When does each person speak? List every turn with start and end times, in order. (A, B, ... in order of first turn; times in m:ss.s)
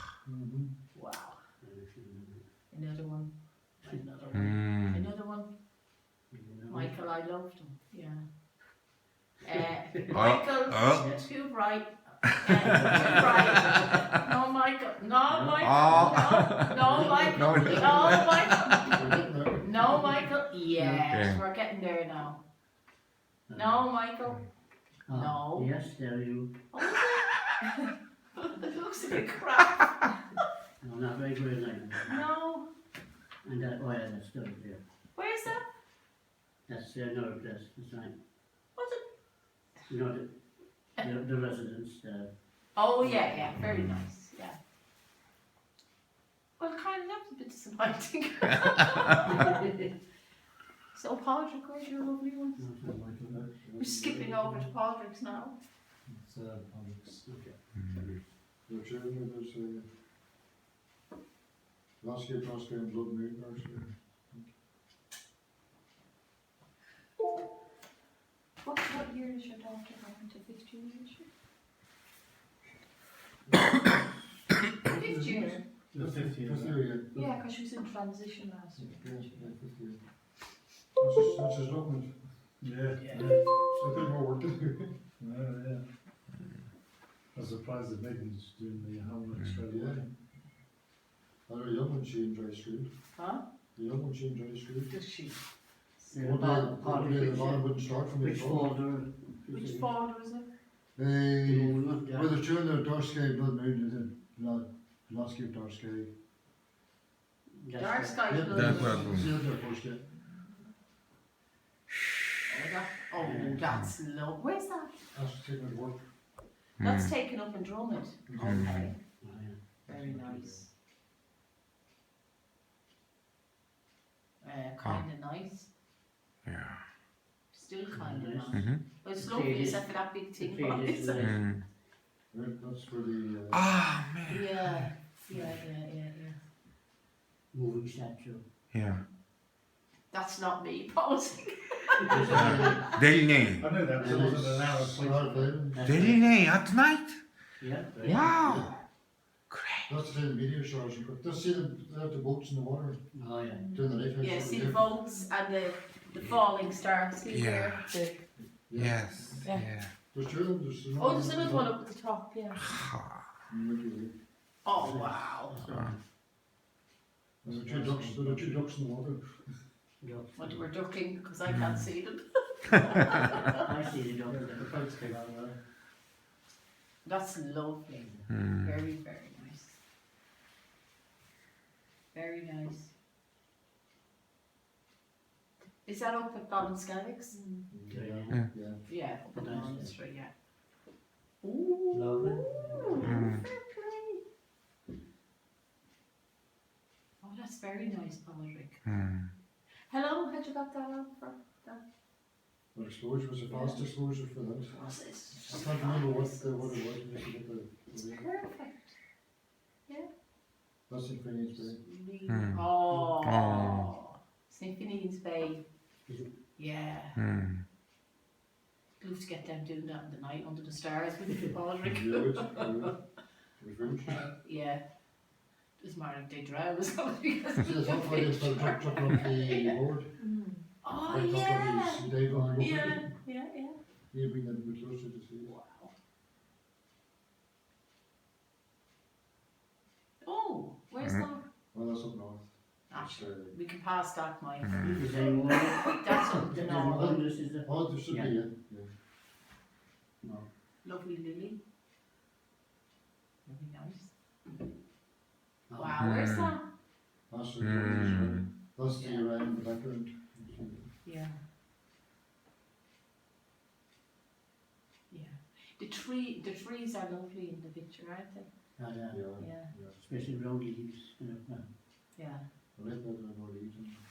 0:00.2-0:00.7 A
0:00.9-0:01.4 B
0:01.6-0:02.4 C
0:02.7-0:05.5 B
0:04.3-0:05.0 D
0:06.3-0:06.9 C
0:06.7-0:08.2 B
0:09.4-0:22.4 B
0:10.1-0:11.0 D
0:10.9-0:11.2 C
0:12.6-0:14.0 C
0:15.3-0:18.5 C
0:15.6-0:18.5 D
0:18.8-0:20.2 A
0:20.8-0:21.0 C
0:21.1-0:21.4 D
0:23.5-0:23.8 C
0:23.5-0:24.4 B
0:25.1-0:26.5 C
0:25.1-0:25.7 B
0:26.7-0:30.2 B
0:30.8-0:32.2 C
0:32.1-0:32.7 B
0:33.4-0:34.8 C
0:35.1-0:35.6 B
0:36.7-0:38.1 C
0:38.8-0:39.0 B
0:39.9-0:40.3 C
0:41.0-0:42.3 C
0:42.8-0:44.6 B
0:43.0-0:43.5 C
0:43.6-0:43.9 D
0:46.6-0:49.7 B
0:49.3-0:49.8 C
0:50.9-0:52.6 B
0:52.6-0:53.4 C
0:53.3-0:54.6 A
0:53.8-0:55.5 B
0:56.2-0:57.2 E
0:57.2-0:58.2 C
0:57.8-0:58.0 D
0:58.7-0:59.8 A
1:02.0-1:04.5 A
1:08.6-1:11.3 B
1:13.5-1:13.9 A
1:14.8-1:15.6 B
1:15.4-1:17.1 A
1:15.9-1:17.4 C
1:16.1-1:16.5 E
1:17.1-1:19.5 B
1:18.8-1:20.0 A
1:21.0-1:22.1 A
1:22.6-1:23.4 E
1:23.0-1:23.3 B
1:23.1-1:25.8 A
1:27.3-1:30.0 E
1:29.6-1:30.0 A
1:31.5-1:32.9 A
1:33.2-1:33.4 B
1:33.8-1:34.9 A
1:34.9-1:35.4 B
1:36.1-1:39.9 C
1:36.1-1:38.7 A
1:39.5-1:40.5 B
1:41.0-1:46.1 A
1:41.4-1:42.4 C
1:47.6-1:48.2 C
1:47.8-1:49.3 B
1:48.3-1:50.0 A
1:48.5-1:49.3 D
1:52.5-1:54.9 B
1:53.2-1:53.6 C
1:55.1-1:56.0 A
1:56.8-1:57.1 D
1:56.8-1:59.0 B
1:58.3-1:58.8 A
1:58.4-1:58.8 D
1:59.2-1:59.6 C
1:59.8-2:00.7 B
1:59.9-2:00.6 A
2:04.4-2:05.7 B
2:06.4-2:06.8 D
2:07.5-2:11.3 B
2:07.9-2:11.4 C
2:08.5-2:08.8 D
2:11.2-2:11.6 D
2:12.3-2:13.7 A
2:13.5-2:14.8 D
2:14.3-2:16.4 B
2:15.3-2:15.6 C
2:17.5-2:18.4 C
2:18.7-2:19.0 D
2:20.1-2:22.9 B
2:22.0-2:22.9 C
2:22.1-2:22.9 A
2:22.3-2:23.8 D
2:23.6-2:24.9 E
2:23.9-2:26.5 C
2:24.0-2:26.2 A
2:25.8-2:27.2 D
2:27.6-2:28.3 C
2:28.0-2:28.8 D
2:28.3-2:28.7 A
2:29.5-2:29.9 D
2:29.9-2:33.1 A
2:33.1-2:33.8 C
2:33.7-2:34.9 A
2:34.2-2:38.2 B
2:37.3-2:37.9 D
2:38.4-2:39.5 A
2:38.8-2:39.9 D
2:40.1-2:41.7 A
2:41.0-2:42.6 B
2:42.6-2:43.2 D
2:43.5-2:44.1 A
2:44.6-2:45.5 B
2:44.8-2:46.0 C
2:45.6-2:45.9 D
2:47.4-2:49.3 A
2:47.4-2:48.6 C
2:50.0-2:50.6 C
2:50.4-2:53.6 B
2:51.5-2:51.8 D
2:53.5-2:55.0 C
2:54.5-2:55.5 E
2:57.0-2:59.8 B
2:57.9-2:58.2 C
2:58.3-2:58.8 D
3:02.1-3:02.9 B
3:05.8-3:07.6 B
3:07.7-3:08.8 A
3:07.9-3:08.4 C
3:08.8-3:10.3 B
3:09.4-3:09.9 C
3:11.4-3:14.2 B
3:11.9-3:13.0 C
3:13.0-3:13.5 D
3:17.2-3:18.8 B
3:18.8-3:19.3 D
3:19.9-3:21.8 B
3:22.7-3:24.7 A
3:23.5-3:23.9 B
3:24.7-3:26.8 B
3:25.4-3:28.3 A
3:27.9-3:28.9 B
3:30.9-3:31.8 A
3:31.6-3:35.6 B
3:32.3-3:33.9 D
3:36.6-3:37.2 B
3:37.2-3:37.6 D
3:39.0-3:42.9 B
3:41.8-3:42.9 A
3:43.6-3:44.2 A
3:44.0-3:44.8 B
3:45.8-3:53.8 B
3:47.6-3:50.1 A
3:51.0-3:53.1 A
3:54.1-3:55.5 A
3:55.4-3:55.9 B
4:00.2-4:01.4 B
4:01.7-4:03.5 A
4:02.9-4:07.1 B
4:04.6-4:05.0 D
4:04.8-4:08.4 C
4:06.7-4:08.9 A
4:10.2-4:10.5 C
4:10.8-4:11.6 B
4:13.4-4:14.1 B
4:15.7-4:16.0 C
4:15.7-4:16.6 B
4:16.0-4:16.6 D
4:17.3-4:20.9 A
4:17.6-4:18.4 D
4:18.9-4:19.2 B
4:21.0-4:21.3 B
4:25.1-4:28.5 B
4:28.8-4:29.3 C
4:29.1-4:30.0 A
4:29.4-4:29.7 B
4:30.0-4:31.7 C
4:32.2-4:32.4 B
4:32.8-4:34.0 A